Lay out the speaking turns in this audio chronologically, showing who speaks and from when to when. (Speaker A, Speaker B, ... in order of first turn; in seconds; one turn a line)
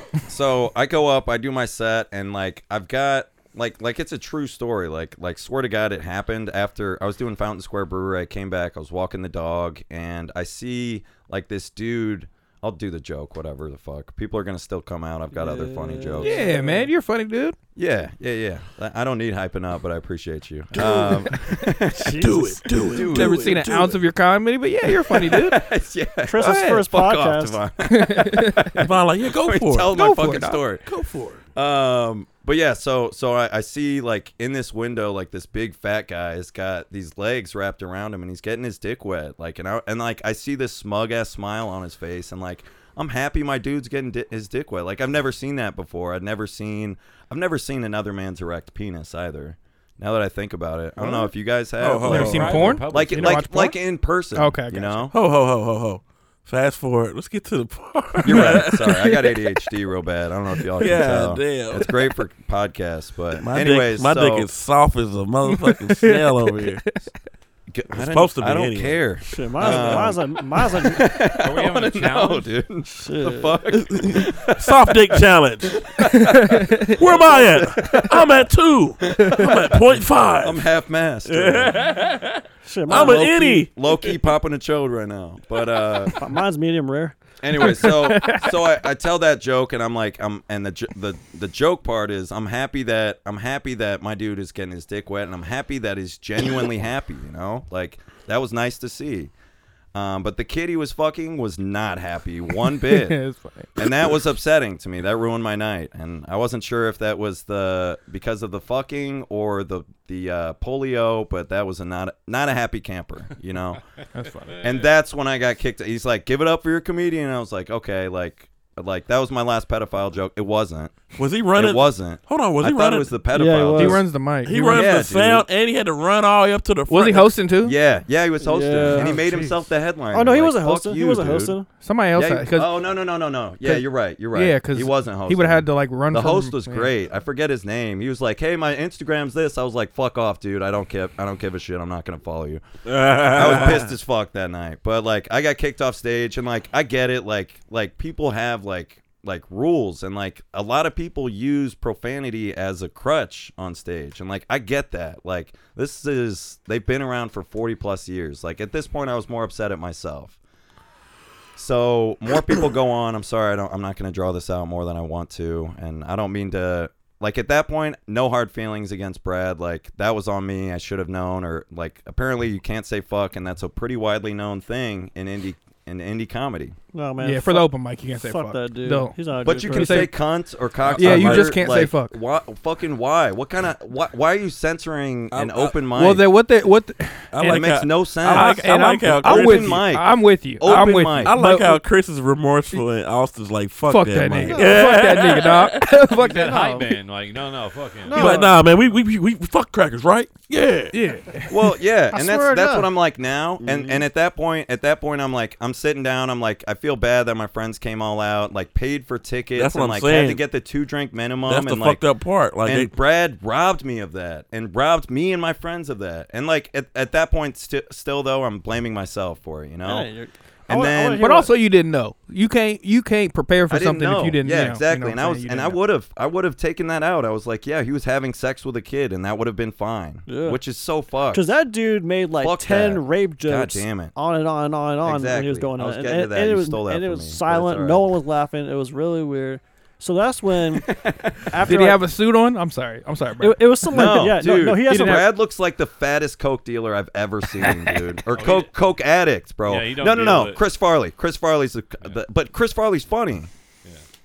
Speaker A: 0.3-16.5
Speaker B: 15.3-16.9
Speaker C: 16.2-17.6
Speaker A: 17.8-24.0
Speaker C: 20.8-21.2
Speaker D: 21.9-23.6
Speaker B: 22.1-22.4
Speaker C: 23.0-25.6
Speaker A: 24.9-30.8
Speaker B: 26.3-27.6
Speaker C: 26.4-26.8
Speaker C: 27.8-28.8
Speaker D: 28.8-29.9
Speaker C: 29.9-30.6
Speaker D: 30.8-31.4
Speaker A: 31.5-55.1
Speaker D: 51.8-52.7
Speaker C: 52.0-53.8
Speaker E: 52.0-53.5
Speaker C: 54.3-55.1
Speaker D: 55.1-59.3
Speaker A: 58.2-64.5
Speaker C: 58.3-58.6
Speaker D: 60.8-62.1
Speaker D: 63.3-66.8
Speaker C: 65.5-67.1
Speaker A: 67.7-75.2
Speaker D: 67.9-69.0
Speaker B: 69.2-71.0
Speaker D: 69.6-70.0
Speaker E: 71.3-72.5
Speaker B: 72.9-73.6
Speaker D: 73.7-75.9
Speaker A: 75.8-78.5
Speaker C: 76.2-77.0
Speaker D: 76.9-80.7
Speaker A: 79.0-79.8
Speaker A: 80.4-81.9
Speaker D: 81.2-84.2
Speaker B: 82.6-83.6
Speaker A: 82.9-86.2
Speaker B: 86.2-87.2
Speaker A: 87.4-99.3
Speaker C: 87.6-88.7
Speaker A: 99.9-103.2
Speaker C: 102.6-104.2
Speaker A: 103.8-113.8
Speaker C: 114.1-114.6
Speaker E: 114.5-114.9
Speaker A: 114.6-121.0
Speaker D: 121.1-123.1
Speaker A: 121.5-124.1
Speaker B: 123.3-124.0
Speaker C: 123.7-124.9
Speaker D: 124.4-127.3
Speaker A: 124.6-125.5
Speaker C: 126.9-127.8
Speaker A: 127.6-131.6
Speaker B: 128.4-129.2
Speaker C: 128.9-129.6
Speaker B: 130.1-131.7
Speaker C: 131.8-132.7
Speaker A: 132.1-142.6
Speaker C: 133.6-136.9
Speaker D: 142.8-143.9
Speaker A: 143.2-160.3
Speaker A: 161.6-176.8
Speaker B: 176.9-180.1
Speaker C: 177.2-180.1
Speaker A: 179.4-186.3
Speaker D: 180.8-181.6
Speaker C: 180.9-182.2
Speaker D: 185.3-185.8
Speaker C: 185.8-187.7
Speaker D: 187.3-189.8
Speaker A: 187.4-191.4
Speaker C: 188.2-191.8
Speaker D: 190.7-196.1
Speaker C: 193.9-196.9
Speaker B: 194.5-195.0
Speaker E: 196.1-198.4
Speaker B: 198.0-198.6
Speaker D: 198.1-201.0
Speaker C: 200.9-201.7
Speaker A: 201.5-212.0
Speaker B: 202.1-202.9
Speaker D: 203.6-204.0
Speaker D: 209.5-210.4
Speaker D: 211.4-212.9
Speaker A: 212.6-220.1
Speaker B: 219.8-221.5
Speaker A: 220.7-221.3
Speaker C: 221.2-225.8
Speaker A: 223.7-231.5
Speaker B: 230.3-230.6
Speaker B: 231.3-242.1
Speaker A: 232.4-234.1
Speaker A: 235.0-238.1
Speaker A: 240.8-241.7
Speaker C: 241.6-244.3
Speaker B: 243.4-245.2
Speaker A: 243.9-253.5
Speaker C: 244.9-245.3
Speaker E: 248.3-248.7
Speaker E: 249.6-250.6